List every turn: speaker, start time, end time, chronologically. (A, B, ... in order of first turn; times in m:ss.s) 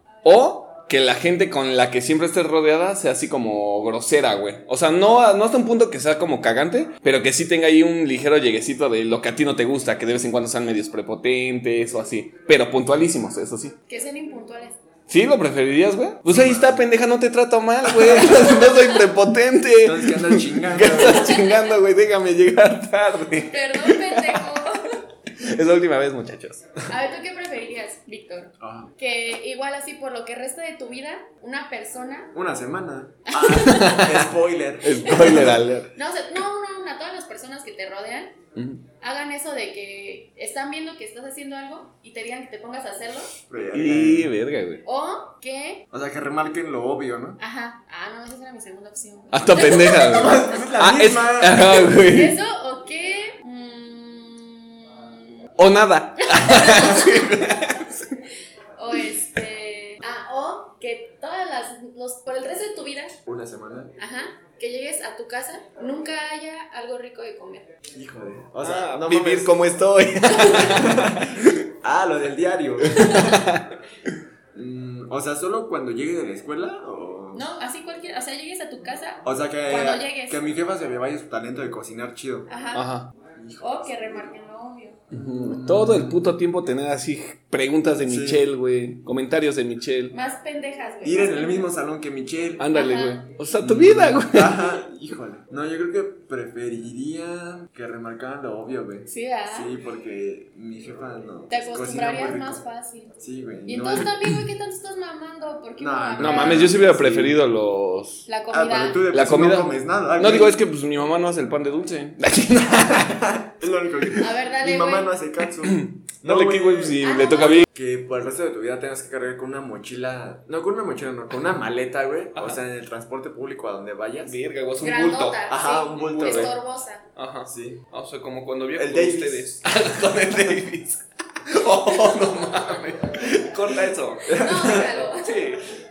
0:00.2-0:13.8 A
0:13.9-0:14.8 B
0:15.1-0:24.4 A
0:16.3-0:16.9 C
0:17.9-0:18.6 C
0:19.8-0:21.4 C
0:20.9-0:21.8 B
0:23.5-0:25.0 B
0:25.4-0:26.6 A
0:26.9-0:32.3 B
0:28.6-0:28.9 C
0:32.3-0:35.6 C
0:33.3-0:34.0 B
0:33.5-0:34.3 A
0:34.8-0:35.9 A
0:35.0-0:38.4 B
0:39.0-0:43.3 B
0:43.5-0:44.3 C
0:43.7-0:44.8 A
0:44.8-0:45.9 B
0:45.9-0:47.4 C
0:47.4-0:50.5 B
0:49.3-0:52.4 A
0:49.7-0:52.0 C
0:52.0-0:55.5 B
0:55.6-0:58.2 A
0:56.2-0:57.4 B
0:58.8-1:03.2 B
1:03.3-1:04.0 C
1:04.0-1:07.7 B
1:08.0-1:09.6 C
1:08.6-1:11.6 A
1:10.3-1:10.7 B
1:10.5-1:13.4 C
1:12.9-1:13.7 A
1:13.0-1:13.3 B
1:14.6-1:17.4 C
1:17.3-1:20.4 B
1:19.2-1:22.5 C
1:22.5-1:22.9 B
1:22.7-1:23.1 A
1:23.4-1:24.2 C
1:23.6-1:25.0 B
1:25.1-1:30.2 A
1:25.1-1:26.4 C
1:28.0-1:28.4 C
1:30.1-1:31.7 B
1:31.0-1:32.7 C
1:32.6-1:34.8 A
1:32.7-1:33.2 B
1:33.6-1:42.6 C
1:39.1-1:39.7 B
1:41.5-1:43.2 B
1:43.2-1:44.2 C
1:43.7-1:46.8 B
1:45.8-1:47.4 C
1:46.2-1:48.3 A
1:48.3-1:49.0 B
1:48.5-1:50.6 C
1:49.1-1:53.2 A
1:52.9-1:57.0 C
1:54.2-1:55.1 B
1:55.6-1:57.7 A
1:57.0-1:57.7 B
1:57.7-2:04.4 C
2:04.2-2:06.5 A
2:04.8-2:07.1 B
2:05.5-2:06.6 C
2:07.2-2:15.6 A
2:07.5-2:07.8 C
2:08.8-2:09.6 C
2:14.3-2:15.0 C
2:14.3-2:15.4 B